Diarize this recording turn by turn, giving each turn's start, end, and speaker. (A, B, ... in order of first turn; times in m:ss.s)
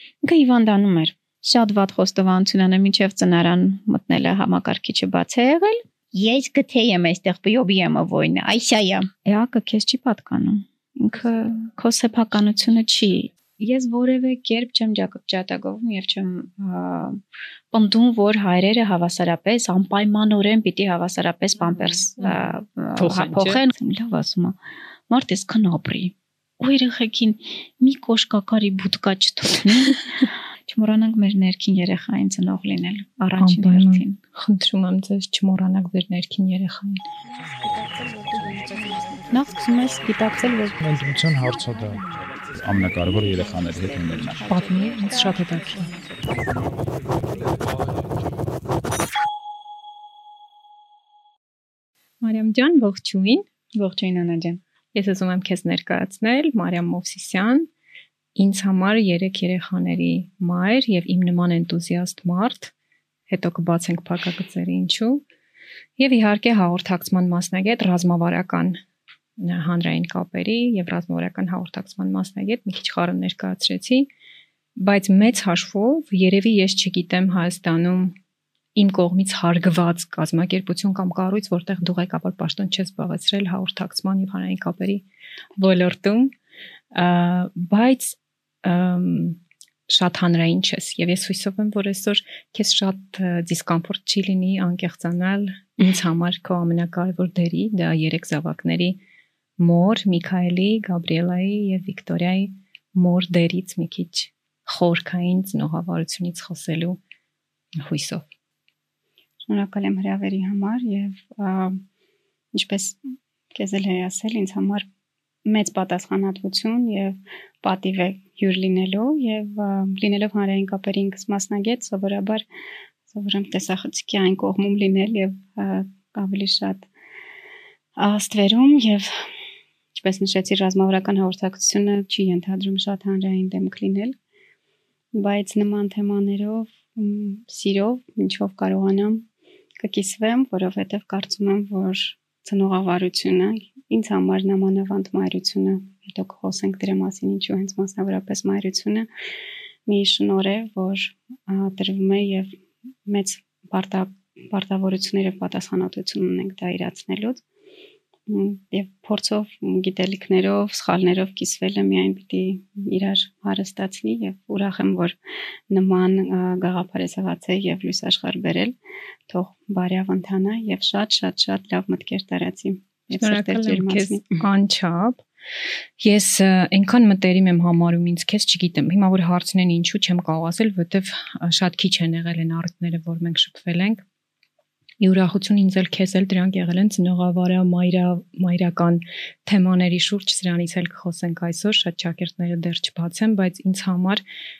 0:00.2-0:17.2 A
0:17.7-0:24.6 A
0:22.2-0:23.6 B
0:25.1-0:34.2 A
0:33.4-0:37.0 B
0:39.3-0:40.8 A
0:40.8-0:42.0 C
0:42.6-0:44.4 C
0:44.4-0:46.0 B
0:52.2-0:53.5 B
0:53.7-0:54.6 A
0:54.9-0:57.7 B
0:58.4-1:02.7 B
1:03.3-1:05.2 B
1:06.0-1:08.8 B
1:09.4-1:14.1 B
1:14.8-1:18.2 B
1:18.8-1:26.3 B
1:26.9-1:39.0 B
1:39.6-1:47.0 B
1:47.8-1:48.3 B
1:49.5-1:51.8 A
1:52.5-1:53.0 A
1:53.5-1:54.9 A
1:55.5-2:02.4 A
2:03.1-2:06.9 A
2:08.0-2:09.2 A
2:10.0-2:14.2 A
2:15.2-2:19.3 A
2:19.8-2:29.1 A
2:29.9-2:37.4 A
2:38.3-2:45.2 A
2:45.7-2:48.8 A
2:49.3-2:54.4 A
2:53.2-2:55.2 B
2:56.0-3:04.0 B
3:05.0-3:14.2 B